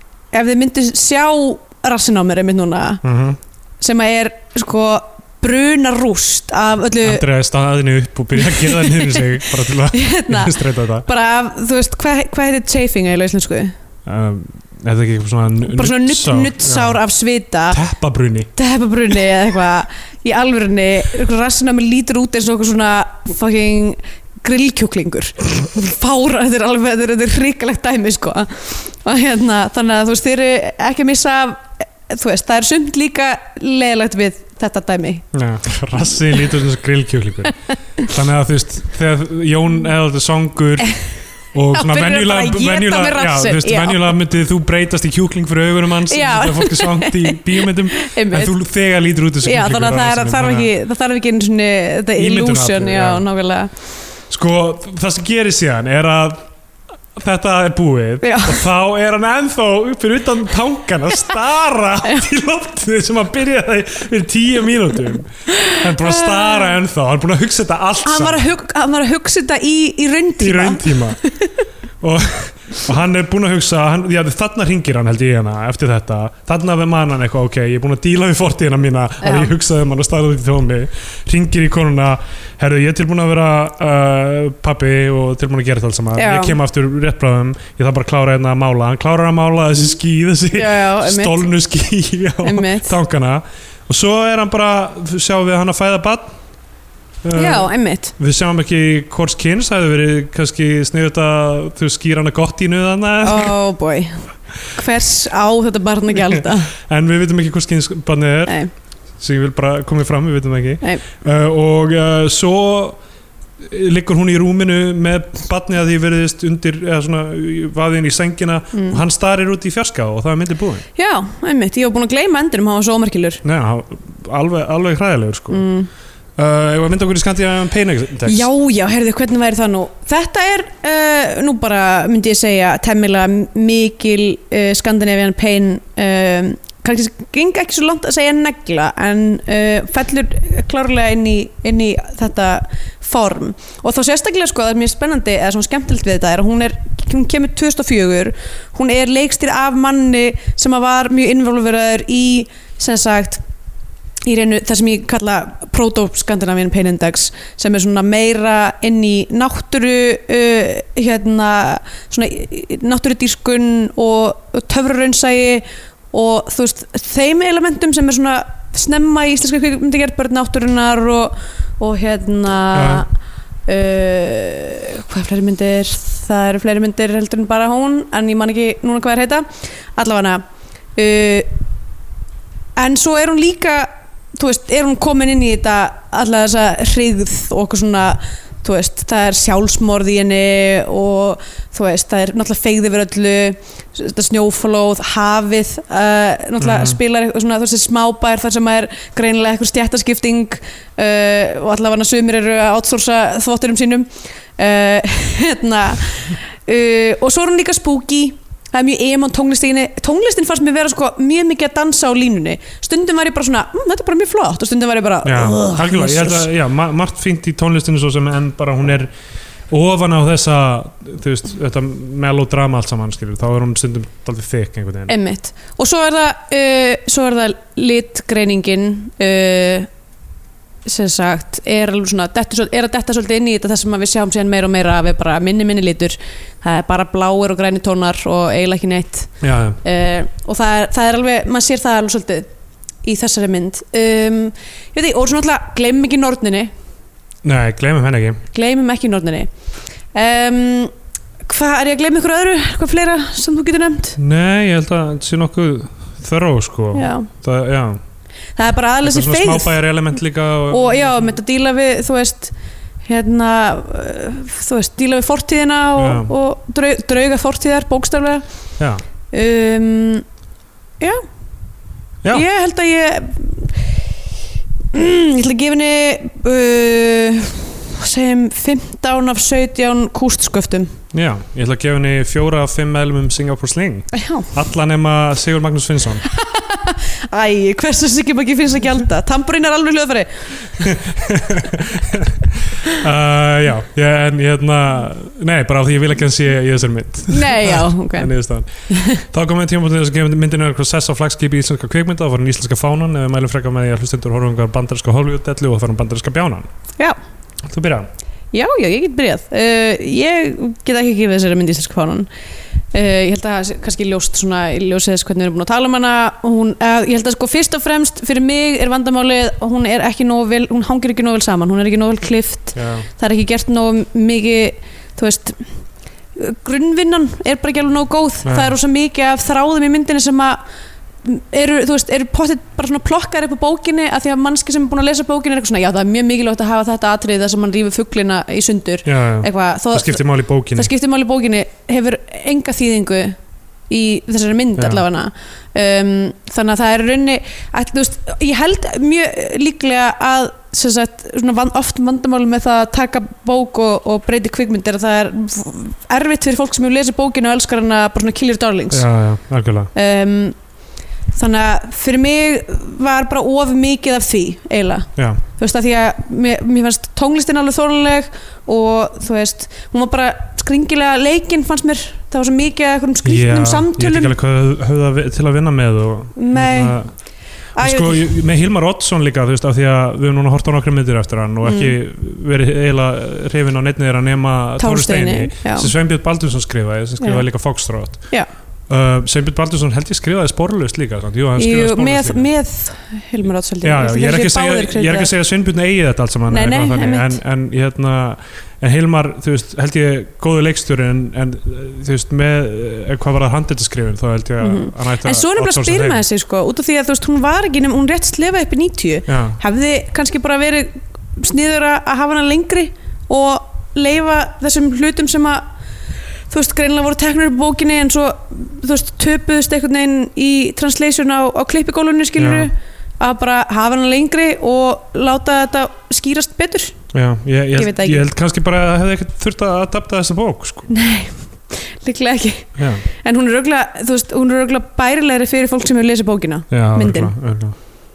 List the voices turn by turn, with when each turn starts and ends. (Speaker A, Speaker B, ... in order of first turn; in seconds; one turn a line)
Speaker A: 0.3-3.0
Speaker B: 3.0-3.4
Speaker A: 3.8-7.2
Speaker B: 7.0-11.1
Speaker A: 8.4-9.3
Speaker A: 9.9-13.8
Speaker B: 14.1-17.0
Speaker A: 15.7-17.8
Speaker B: 17.7-18.5
Speaker A: 18.6-35.2
Speaker B: 35.3-40.9
Speaker B: 41.5-50.7
Speaker A: 41.7-44.1
Speaker A: 46.1-48.5
Speaker A: 49.4-53.7
Speaker B: 52.2-53.2
Speaker B: 54.3-56.5
Speaker B: 57.1-68.5
Speaker A: 58.2-58.7
Speaker A: 65.5-66.7
Speaker A: 68.0-71.5
Speaker B: 70.4-71.2
Speaker B: 72.0-96.3
Speaker A: 79.2-79.5
Speaker A: 86.2-86.6
Speaker A: 90.5-91.4
Speaker A: 92.4-93.0
Speaker B: 97.2-103.5
Speaker A: 97.3-98.1
Speaker A: 103.2-106.7
Speaker B: 106.3-108.6
Speaker B: 109.2-113.0
Speaker B: 113.6-120.8
Speaker A: 118.7-119.0
Speaker A: 121.0-123.4
Speaker B: 123.4-125.7
Speaker A: 125.5-125.9
Speaker B: 126.4-128.5
Speaker A: 128.2-153.4
Speaker A: 154.2-173.1
Speaker B: 172.7-173.1
Speaker A: 173.7-180.4
Speaker A: 181.0-181.5
Speaker A: 182.8-216.5
Speaker B: 196.6-197.0
Speaker B: 215.2-219.1
Speaker B: 219.7-225.1
Speaker A: 225.1-229.9
Speaker A: 230.8-242.5
Speaker B: 239.4-239.8
Speaker A: 243.0-246.7
Speaker B: 247.4-248.4
Speaker A: 248.5-249.5
Speaker A: 250.1-250.9
Speaker A: 251.4-254.2
Speaker B: 254.2-258.0
Speaker A: 256.9-257.3
Speaker A: 258.6-259.8
Speaker B: 259.0-261.4
Speaker A: 260.7-262.5
Speaker A: 263.1-268.4
Speaker B: 266.0-266.3
Speaker A: 269.3-270.2
Speaker A: 272.3-273.9
Speaker A: 274.9-281.0
Speaker B: 281.1-286.2
Speaker A: 284.1-284.5
Speaker A: 286.3-290.9
Speaker B: 290.8-306.7
Speaker A: 297.3-298.3
Speaker A: 298.9-299.2
Speaker B: 307.6-308.1
Speaker A: 308.5-312.3
Speaker A: 312.9-325.7
Speaker B: 322.7-323.1
Speaker A: 326.4-330.6
Speaker B: 328.4-328.7
Speaker A: 331.2-343.4
Speaker B: 339.1-340.9
Speaker A: 343.9-359.1
Speaker B: 344.8-345.0
Speaker B: 358.9-359.9
Speaker A: 359.9-360.6
Speaker A: 361.3-374.3
Speaker B: 365.2-365.4
Speaker B: 373.2-377.1
Speaker A: 376.4-377.0
Speaker A: 377.8-378.3
Speaker B: 377.8-388.3
Speaker A: 381.6-381.9
Speaker A: 384.8-385.9
Speaker A: 387.2-387.4
Speaker B: 388.9-392.5
Speaker A: 391.6-395.3
Speaker B: 393.8-406.2
Speaker A: 396.5-397.4
Speaker A: 404.6-415.7
Speaker B: 409.3-409.6
Speaker A: 416.5-427.0
Speaker B: 422.4-422.7
Speaker B: 427.1-430.9
Speaker A: 427.8-428.2
Speaker A: 430.9-437.3
Speaker B: 432.8-433.0
Speaker B: 436.7-437.8